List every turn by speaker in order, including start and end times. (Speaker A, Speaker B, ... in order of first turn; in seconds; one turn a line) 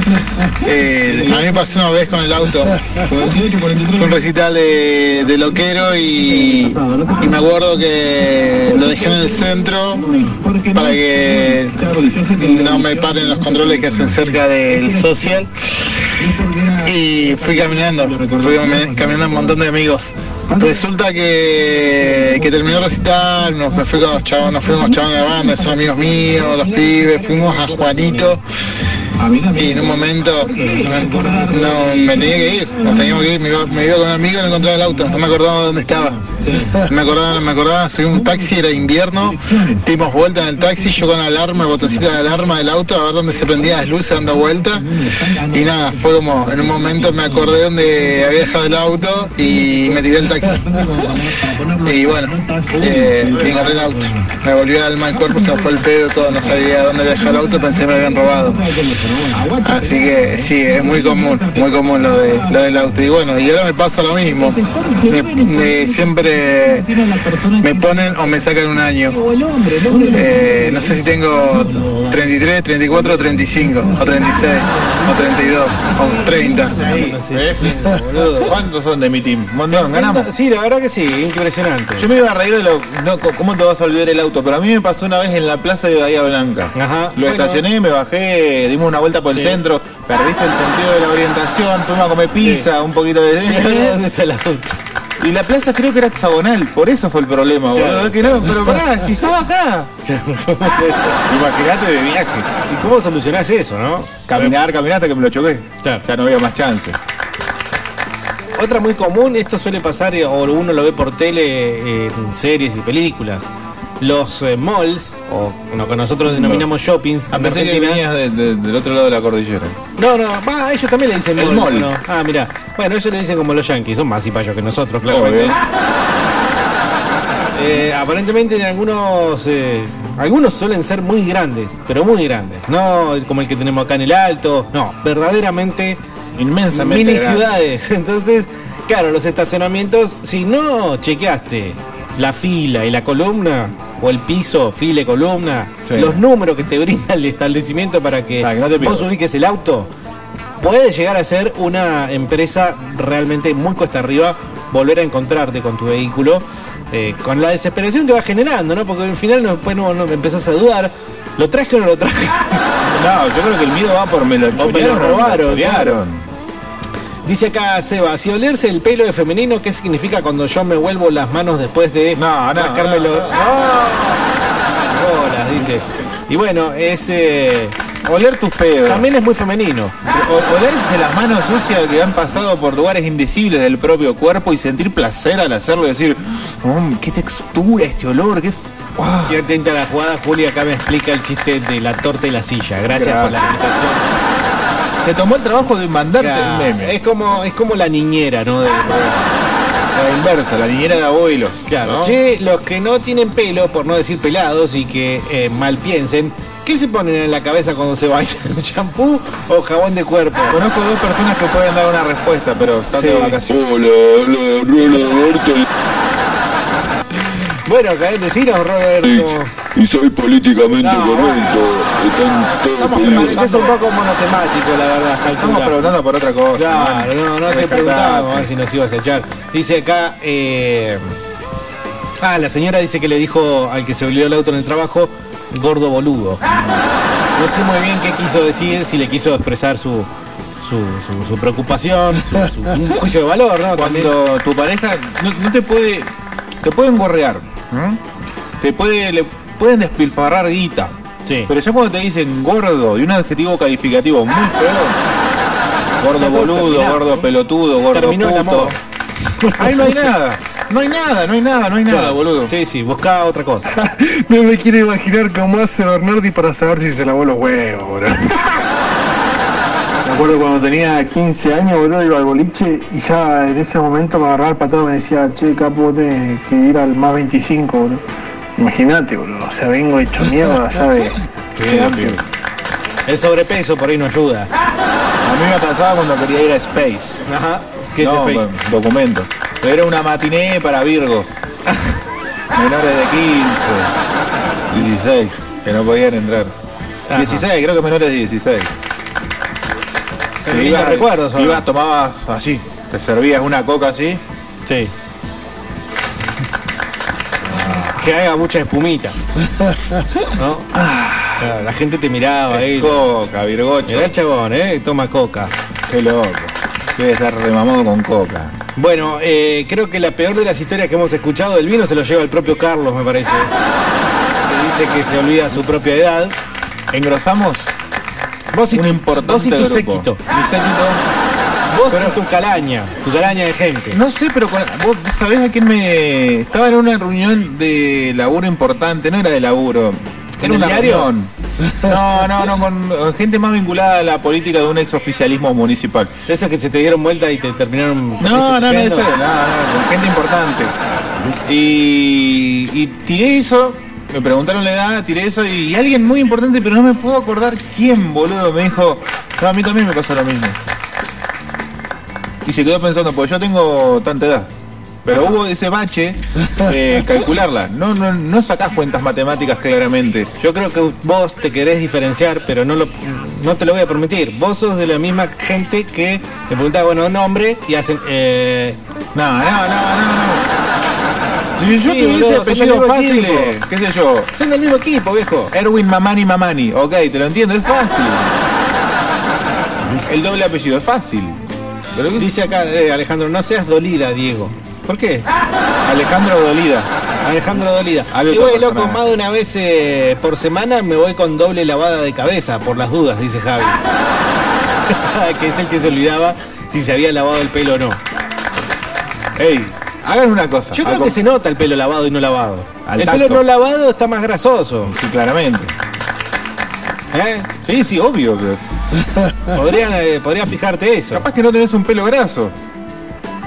Speaker A: 0.6-10.1
Speaker A: 10.7-15.5
Speaker A: 16.8-28.4
Speaker A: 29.5-36.2
Speaker A: 36.8-44.9
Speaker A: 45.5-50.7
Speaker A: 51.8-58.6
Speaker A: 59.6-66.9
Speaker A: 67.6-69.2
Speaker A: 69.9-76.8
Speaker B: 76.8-78.5
Speaker C: 76.8-80.3
Speaker B: 79.7-82.1
Speaker C: 82.0-94.0
Speaker B: 86.7-87.6
Speaker B: 89.3-89.6
Speaker B: 92.4-92.7
Speaker B: 93.4-94.8
Speaker C: 95.2-99.9
Speaker B: 97.7-98.8
Speaker B: 100.0-101.2
Speaker C: 101.3-102.5
Speaker B: 102.7-104.5
Speaker C: 104.3-107.0
Speaker B: 108.5-113.5
Speaker B: 114.0-118.0
Speaker C: 116.2-116.7
Speaker C: 117.3-119.8
Speaker B: 120.0-125.6
Speaker C: 121.3-121.9
Speaker C: 125.1-125.6
Speaker B: 127.5-136.0
Speaker C: 136.4-137.5
Speaker B: 136.7-149.9
Speaker C: 145.9-146.2
Speaker C: 148.4-149.1
Speaker B: 150.6-162.6
Speaker C: 162.8-166.2
Speaker B: 164.6-166.0
Speaker B: 167.2-177.7
Speaker C: 172.1-173.4
Speaker C: 178.0-179.1
Speaker B: 178.8-179.9
Speaker C: 180.0-189.4
Speaker B: 189.3-194.1
Speaker C: 192.9-193.6
Speaker C: 195.0-197.0
Speaker B: 196.2-199.3
Speaker C: 199.9-202.2
Speaker B: 201.7-210.6
Speaker C: 210.5-213.5
Speaker B: 212.9-213.4
Speaker D: 213.5-215.6
Speaker B: 217.7-219.5
Speaker D: 219.0-223.4
Speaker B: 220.8-222.1
Speaker C: 221.7-223.8
Speaker B: 222.9-225.9
Speaker C: 225.4-228.5
Speaker B: 226.6-231.2
Speaker B: 232.2-236.4
Speaker C: 236.5-236.8
Speaker B: 237.3-240.1
Speaker B: 240.6-244.1
Speaker C: 243.7-248.0
Speaker C: 248.6-250.9
Speaker B: 251.2-251.5
Speaker C: 251.5-255.0
Speaker C: 256.0-258.8
Speaker B: 256.1-257.2
Speaker B: 257.9-258.8
Speaker B: 259.4-260.1
Speaker C: 259.6-262.5
Speaker B: 261.9-263.7
Speaker E: 263.7-268.6
Speaker E: 270.0-278.0
Speaker E: 278.6-282.2
Speaker C: 281.6-282.2
Speaker B: 283.1-284.5
Speaker C: 285.2-287.2
Speaker B: 287.3-288.5
Speaker C: 288.0-291.3
Speaker C: 292.5-293.9
Speaker C: 294.7-296.5
Speaker B: 297.1-297.4
Speaker C: 297.1-298.7
Speaker B: 300.4-301.6
Speaker C: 300.5-304.2
Speaker B: 304.6-304.9
Speaker C: 307.5-307.9
Speaker B: 307.9-309.2
Speaker B: 310.4-310.7
Speaker C: 310.7-311.5
Speaker B: 311.4-313.0
Speaker C: 312.5-314.1
Speaker B: 313.9-315.5
Speaker C: 315.9-318.5
Speaker B: 318.8-323.5
Speaker B: 324.4-326.4
Speaker C: 326.9-327.7
Speaker B: 328.5-330.2
Speaker C: 328.7-331.0
Speaker B: 331.7-334.0
Speaker C: 331.9-332.2
Speaker C: 333.9-341.3
Speaker B: 340.4-341.1
Speaker C: 341.8-346.1
Speaker B: 346.3-349.1
Speaker C: 348.2-350.8
Speaker C: 351.4-360.6
Speaker C: 362.4-364.5
Speaker C: 365.0-370.3
Speaker B: 365.1-365.3
Speaker B: 370.4-378.8
Speaker C: 379.1-380.5
Speaker C: 381.6-384.3
Speaker B: 381.8-383.6
Speaker B: 384.4-385.5
Speaker C: 385.5-388.3
Speaker C: 390.0-391.4
Speaker C: 391.9-392.3
Speaker B: 392.2-395.2
Speaker C: 395.8-396.9
Speaker B: 397.2-403.8
Speaker C: 398.1-399.1
Speaker B: 404.9-408.0
Speaker C: 409.3-411.2
Speaker B: 410.7-414.9
Speaker C: 412.9-413.4
Speaker C: 414.8-415.7
Speaker B: 417.1-417.5
Speaker C: 417.6-418.6
Speaker B: 419.5-421.2
Speaker C: 421.1-422.5